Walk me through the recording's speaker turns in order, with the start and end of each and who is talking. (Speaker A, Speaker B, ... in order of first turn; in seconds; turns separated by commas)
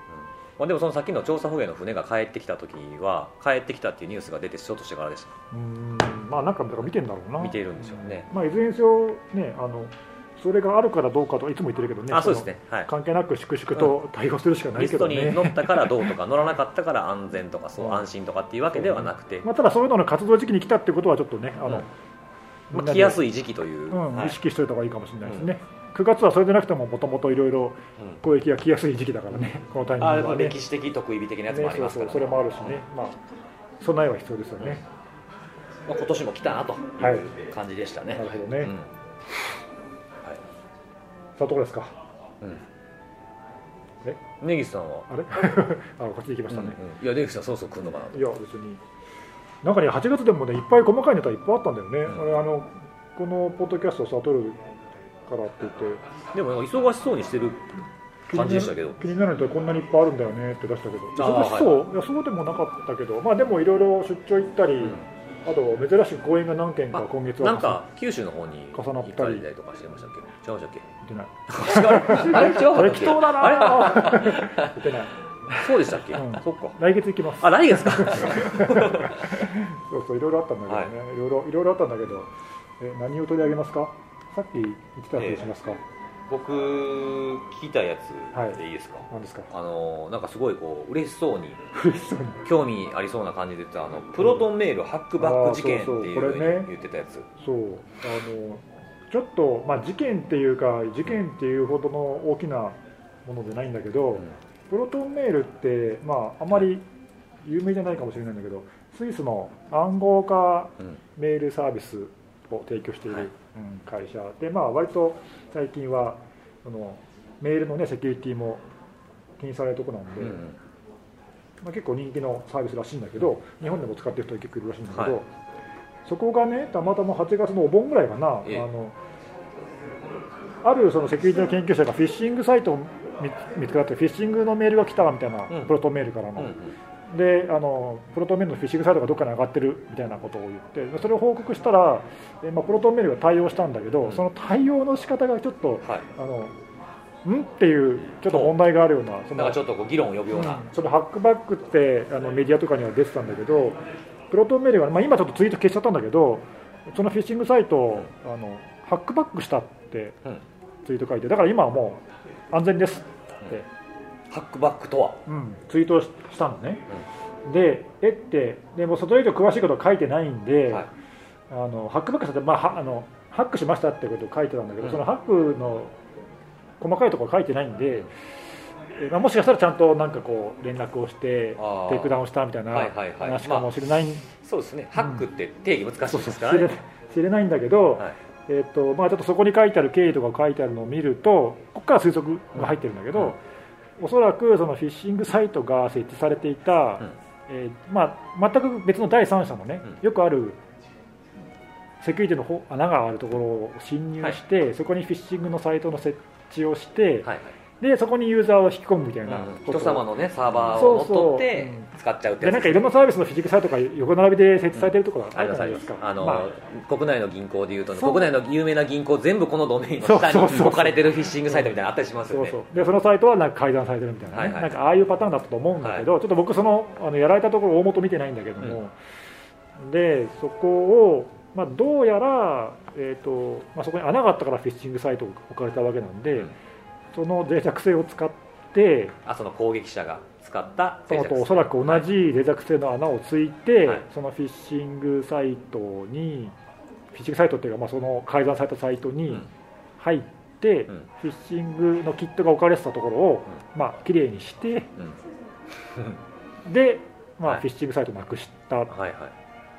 Speaker A: 0.1-5.3, Speaker B: 5.5-16.1, Speaker A: 7.4-8.3, Speaker A: 12.1-12.9, Speaker A: 14.8-19.5, Speaker B: 17.8-18.1, Speaker B: 18.7-21.9, Speaker B: 22.7-23.2, Speaker A: 22.7-24.4, Speaker B: 23.9-30.6, Speaker A: 25.2-25.5, Speaker A: 30.0-32.8, Speaker B: 31.5-33.2, Speaker B: 33.8-34.8, Speaker A: 35.9-38.9, Speaker B: 37.0-37.3, Speaker B: 38.1-38.7, Speaker B: 41.4-42.0, Speaker A: 44.4-45.1, Speaker B: 45.1-46.8, Speaker A: 46.5-48.3, Speaker B: 48.1-48.8, Speaker B: 49.6-54.6, Speaker B: 55.2-56.0, Speaker A: 56.3-59.0, Speaker B: 58.3-67.8, Speaker A: 61.2-61.9, Speaker A: 64.8-65.0, Speaker A: 66.9-70.9, Speaker B: 68.7-69.5, Speaker B: 71.0-85.8, Speaker A: 71.5-74.7, Speaker A: 75.5-76.8, Speaker A: 77.4-79.4, Speaker A: 80.7-80.9, Speaker A: 85.2-85.5, Speaker A: 86.3-91.6, Speaker B: 88.3-89.5, Speaker B: 91.7-92.4, Speaker A: 92.5-97.3, Speaker B: 94.2-94.5, Speaker B: 95.2-96.7, Speaker B: 97.4-106.8, Speaker B: 107.4-118.7, Speaker B: 119.4-120.4, Speaker A: 120.2-120.6, Speaker B: 121.6-125.3, Speaker A: 124.9-125.2, Speaker B: 126.0-129.0, Speaker B: 130.6-136.6, Speaker A: 135.5-135.7, Speaker A: 136.4-136.7, Speaker B: 137.1-146.5, Speaker B: 147.2-149.6, Speaker A: 148.3-148.6, Speaker A: 149.3-150.7, Speaker B: 150.3-153.8, Speaker B: 154.3-160.2, Speaker B: 160.8-163.7, Speaker A: 164.3-165.2, Speaker B: 165.2-166.9, Speaker B: 167.4-170.9, Speaker B: 171.5-175.9, Speaker B: 176.8-178.1, Speaker B: 178.9-184.3, Speaker A: 181.6-182.2, Speaker A: 182.7-183.7, Speaker A: 184.4-186.7, Speaker B: 184.9-185.2, Speaker B: 186.1-193.4, Speaker A: 192.6-193.3, Speaker B: 194.0-200.6, Speaker B: 202.0-210.1, Speaker A: 207.2-207.5, Speaker A: 209.2-212.9, Speaker B: 210.7-211.9, Speaker B: 212.4-216.5, Speaker A: 214.7-222.6, Speaker B: 220.0-221.7, Speaker B: 222.3-228.9, Speaker A: 224.3-224.7, Speaker A: 225.8-226.1, Speaker B: 229.8-236.5, Speaker B: 237.1-239.2, Speaker A: 239.2-242.1, Speaker B: 241.1-246.5, Speaker B: 247.1-249.5, Speaker B: 250.0-254.9, Speaker A: 255.9-256.2, Speaker B: 256.6-258.9, Speaker A: 258.9-259.3